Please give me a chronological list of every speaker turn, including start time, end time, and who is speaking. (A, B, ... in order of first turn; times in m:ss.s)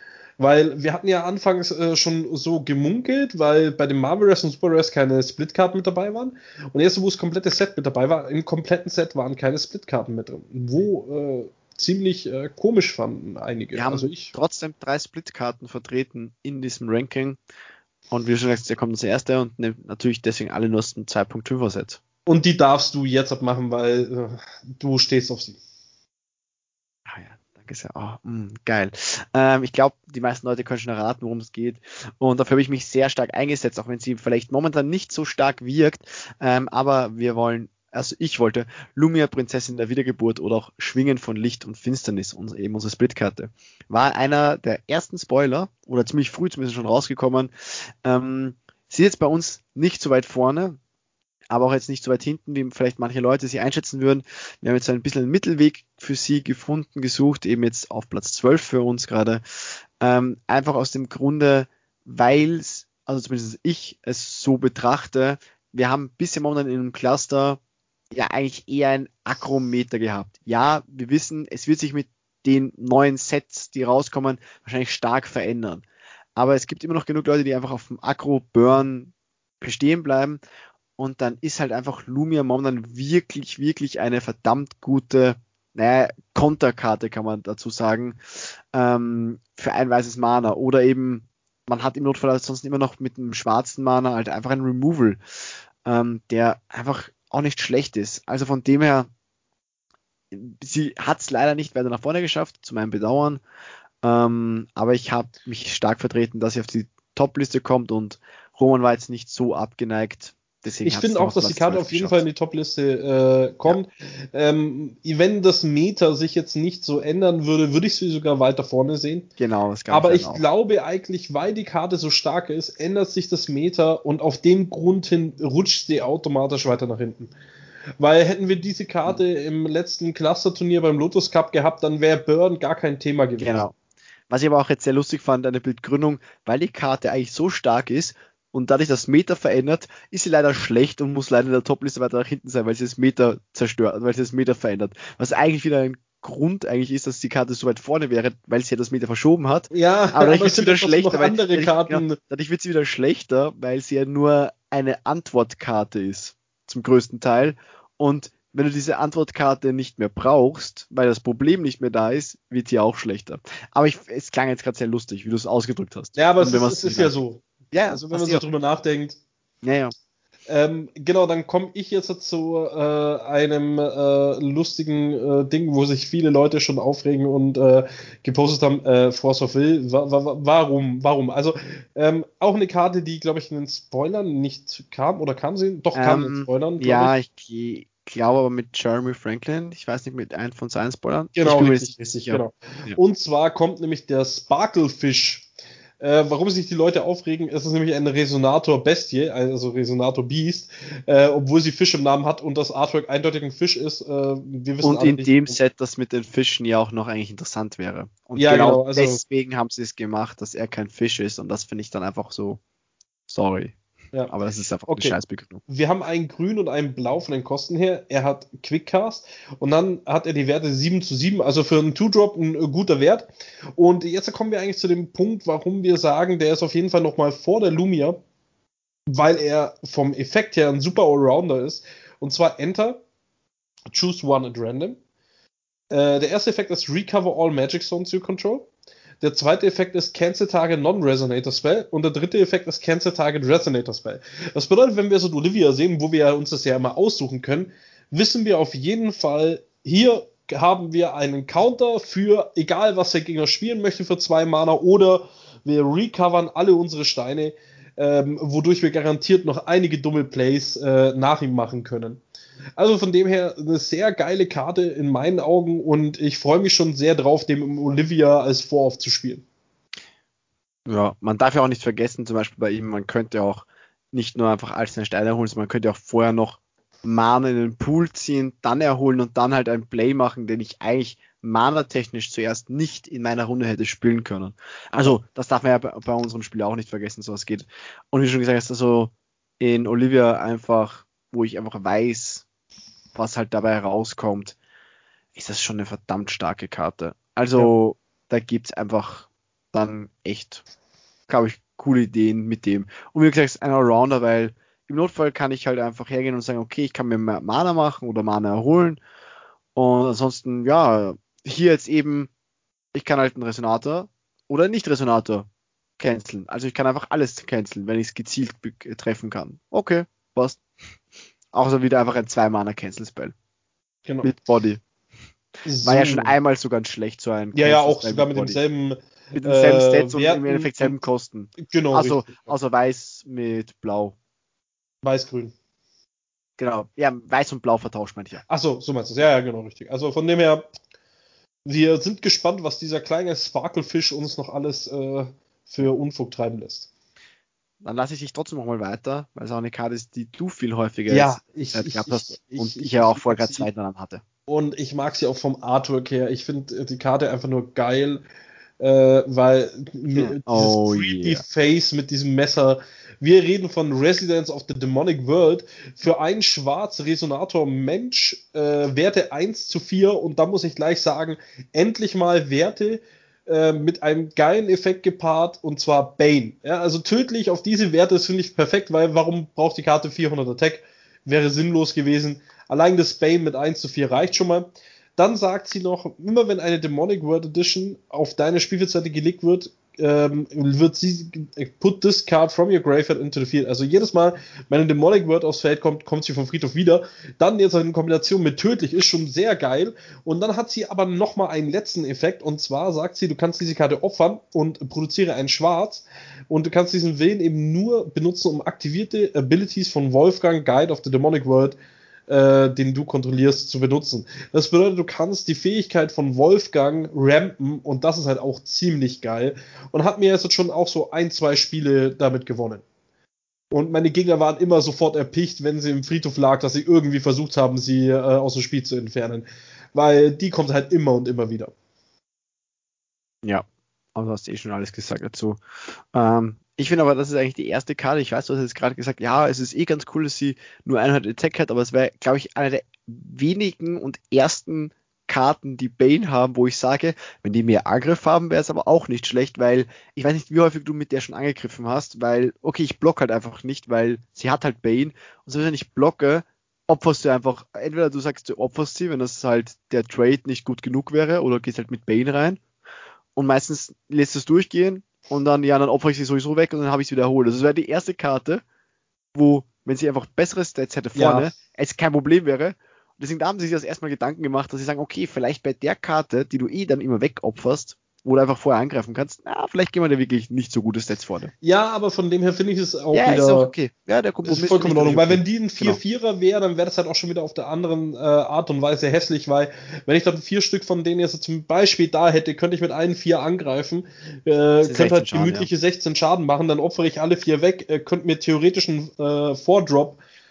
0:00.4-0:14.3 A
0:13.7-0:17.4 B
0:18.1-0:22.0 B
0:22.2-0:25.6 A
0:27.0-0:47.5 B
0:48.0-0:50.8 B
0:51.5-0:59.4 B
1:00.0-1:07.6 B
1:08.1-1:15.8 B
1:16.4-1:20.4 B
1:21.0-1:35.2 B
1:35.8-1:39.1 B
1:40.3-1:43.4 B
1:44.0-1:52.2 B
1:50.8-1:59.3 A
1:59.4-2:00.4 B
1:59.9-2:07.3 A
2:08.0-2:13.6 A
2:13.4-2:13.7 B
2:14.3-2:47.1 B
2:29.7-2:32.2 A
2:46.2-2:49.2 A
2:47.7-2:48.4 B
2:49.6-2:49.9 B
2:50.5-3:07.1 A
3:05.9-3:13.0 B
3:11.4-3:15.5 A
3:16.0-3:25.6 A
3:24.8-3:32.6 B
3:28.4-3:29.2 A
3:33.3-3:33.7 B
3:34.3-3:35.6 B
3:34.9-3:48.2 A
3:49.1-3:53.0 A
3:53.9-3:55.0 A
3:55.9-3:58.7 A
3:59.2-4:22.2 A
4:22.8-4:29.4 A
4:30.9-4:52.4 B
4:53.1-4:54.6 B
4:55.3-5:00.6 B
5:01.3-5:09.0 B
5:09.7-5:12.3 B
5:12.9-5:15.5 B
5:16.0-5:20.6 B
5:21.5-5:23.3 B
5:24.2-5:24.8 B
5:25.6-5:26.4 A
5:25.8-5:28.6 B
5:27.5-5:31.0 A
5:29.4-5:34.1 B
5:31.6-5:32.5 A
5:35.0-5:35.5 A
5:36.6-5:38.4 B
5:38.5-5:40.7 A
5:41.6-5:46.9 A
5:47.8-5:54.2 B
5:51.1-5:53.7 A
5:54.5-5:58.2 A
5:58.8-6:24.6 A
6:00.2-6:01.4 B
6:25.2-6:51.8 A
6:52.3-7:02.8 A
7:03.7-7:11.7 A
7:13.4-7:15.6 B
7:16.1-7:42.6 B
7:43.4-7:48.6 B
7:49.3-8:01.5 B
7:51.1-7:51.5 A
8:01.6-8:03.7 A
8:03.1-8:06.0 B
8:04.4-8:20.2 A
8:14.8-8:15.7 B